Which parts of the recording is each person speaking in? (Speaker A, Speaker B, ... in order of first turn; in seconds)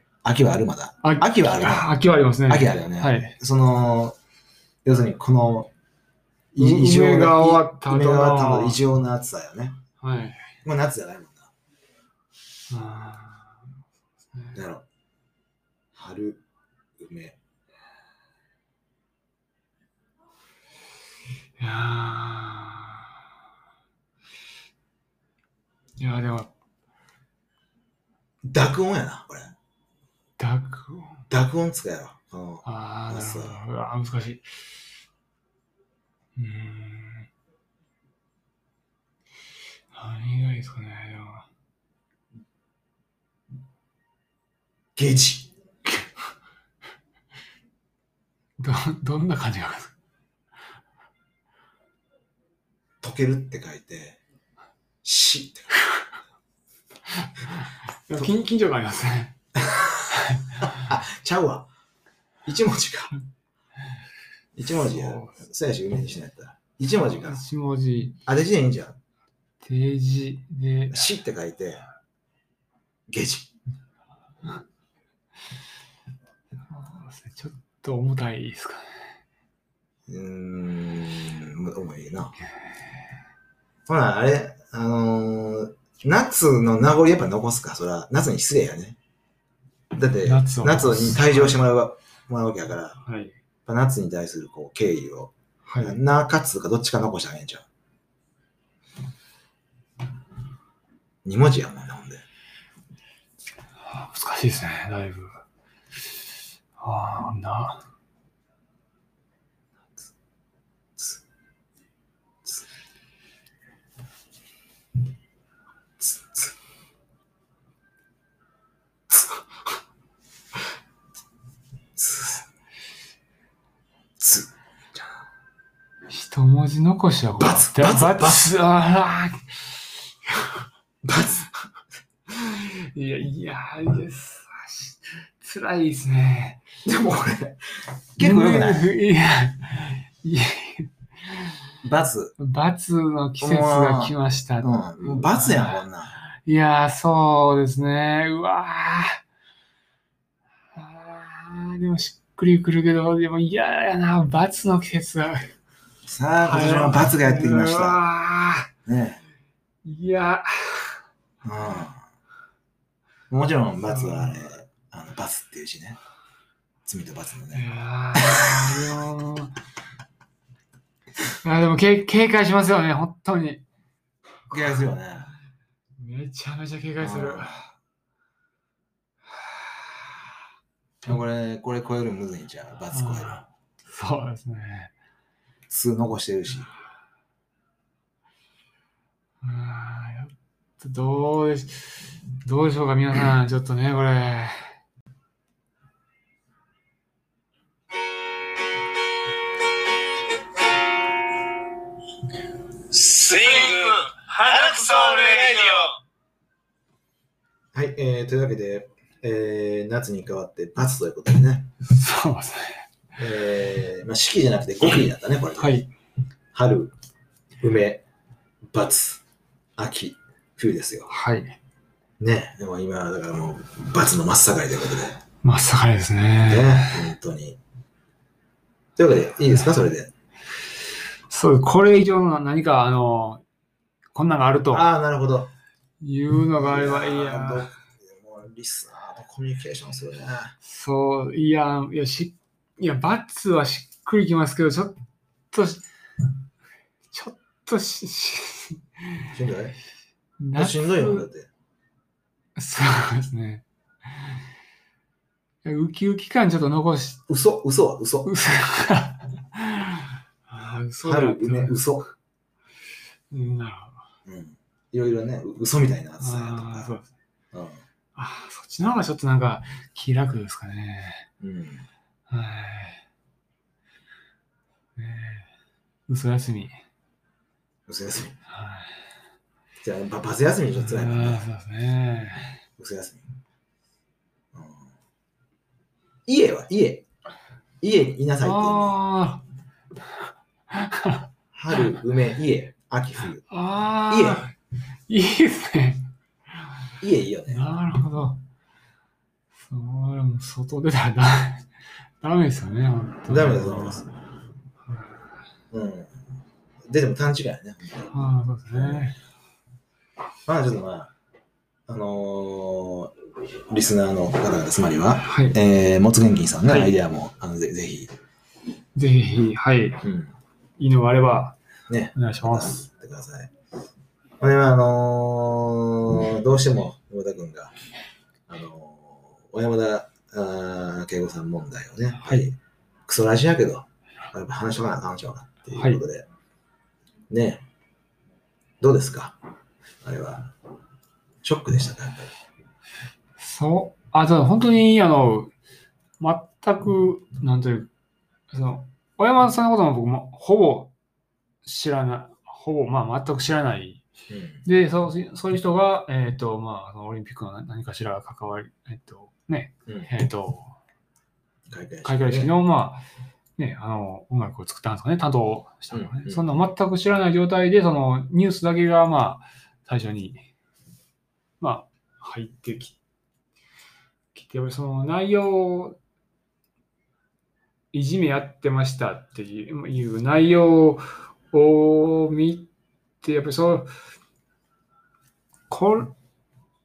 Speaker A: 0.2-1.9, 2.5-4.2, 4.8-5.7, 6.5-9.8, 10.7-11.5, 14.6-14.8, 15.9-16.4, 17.0-17.4, 28.4-29.6, 31.3-33.6, 45.0-45.5, 53.0-54.2, 55.0-55.7, 59.6-60.0, 60.6-61.7, 62.5-63.1, 64.6-67.4, 68.3-69.0, 70.9-71.9, 73.1-73.5, 80.1-82.4, 83.9-89.0, 89.9-93.0, 93.7-97.7, 101.2-102.2, 116.0-116.5, 122.0-122.5, 124.2-125.0, 127.4-128.5, 131.0-131.5, 136.8-137.6, 138.2-138.9, 141.8-142.3, 143.4-146.2, 156.1-158.0, 158.9-159.2, 161.4-162.0, 163.3-166.0, 166.9-168.9, 174.5-175.3, 177.0-177.6, 181.0-183.4, 185.7-186.7, 207.7-211.7, 213.2-215.8, 216.5-216.9, 217.6-218.0, 218.7-219.2, 219.8-221.1, 222.2-225.2, 226.5-227.6, 229.0-230.1, 234.7-235.5, 236.6-240.6, 249.3-249.8, 250.6-251.5, 257.3-258.3, 261.0-262.1, 264.3-266.9, 267.5-267.8, 271.4-271.9, 277.9-278.4, 279.8-281.5, 282.8-283.3, 284.5-284.9, 286.3-287.1, 287.8-289.0, 291.5-293.5, 294.1-294.5, 297.0-297.7, 303.3-304.1, 305.7-306.2, 306.9-308.1, 308.7-309.1, 310.5-311.1, 311.9-313.1, 313.7-318.1, 320.0-320.3, 321.9-323.5, 324.4-327.8, 328.5-336.3, 337.3-337.6, 338.8-339.4, 340.0-340.5, 341.4-342.3, 354.3-354.6, 361.7-362.5, 365.9-366.5
Speaker B: 1.0-3.4, 6.6-8.8, 10.0-10.5, 12.7-13.6, 14.3-14.6, 21.6-23.1, 26.0-26.5, 30.4-31.2, 32.6-34.5, 36.4-37.3, 39.9-41.5, 48.6-49.9, 57.5-59.4, 60.1-60.7, 64.8-65.4, 67.2-68.2, 69.6-71.1, 76.7-79.0, 90.2-91.6, 93.0-93.3, 95.7-96.0, 103.9-105.4, 106.8-107.8, 126.1-130.6, 132.3-136.6, 138.2-141.6, 142.4-145.8, 146.4-149.2, 150.8-155.5, 156.4-158.7, 159.8-161.0, 163.9-164.3, 167.5-169.5, 171.4-173.6, 174.5-174.9, 176.0-177.6, 179.3-180.1, 182.9-184.9, 189.4-194.7, 211.9-212.9, 215.6-215.9, 221.1-221.6, 225.4-227.1, 231.3-233.4, 234.2-234.9, 236.0-237.7, 240.6-245.0, 245.5-245.8, 247.1-249.3, 250.4-251.3, 252.6-253.6, 255.6-257.2, 258.2-261.9, 263.3-264.0, 266.2-267.1, 268.2-271.3, 272.3-273.0, 275.0-275.5, 276.1-276.8, 278.5-278.9, 280.8-282.6, 288.4-289.4, 290.7-291.2, 293.5-294.5, 295.1-296.1, 297.5-298.4, 299.6-301.7, 302.2-304.0, 304.9-305.2, 308.1-309.2, 315.2-315.6, 316.7-317.0, 319.0-320.0, 320.8-321.6, 322.1-322.9, 335.7-336.0, 343.4-345.5, 346.2-347.9, 348.5-350.9, 351.6-354.0, 354.6-360.8, 362.0-363.1, 363.6-370.4, 371.6-373.0, 374.3-376.0, 377.9-382.7, 383.2-383.9, 385.7-386.1
Speaker C: 202.9-206.0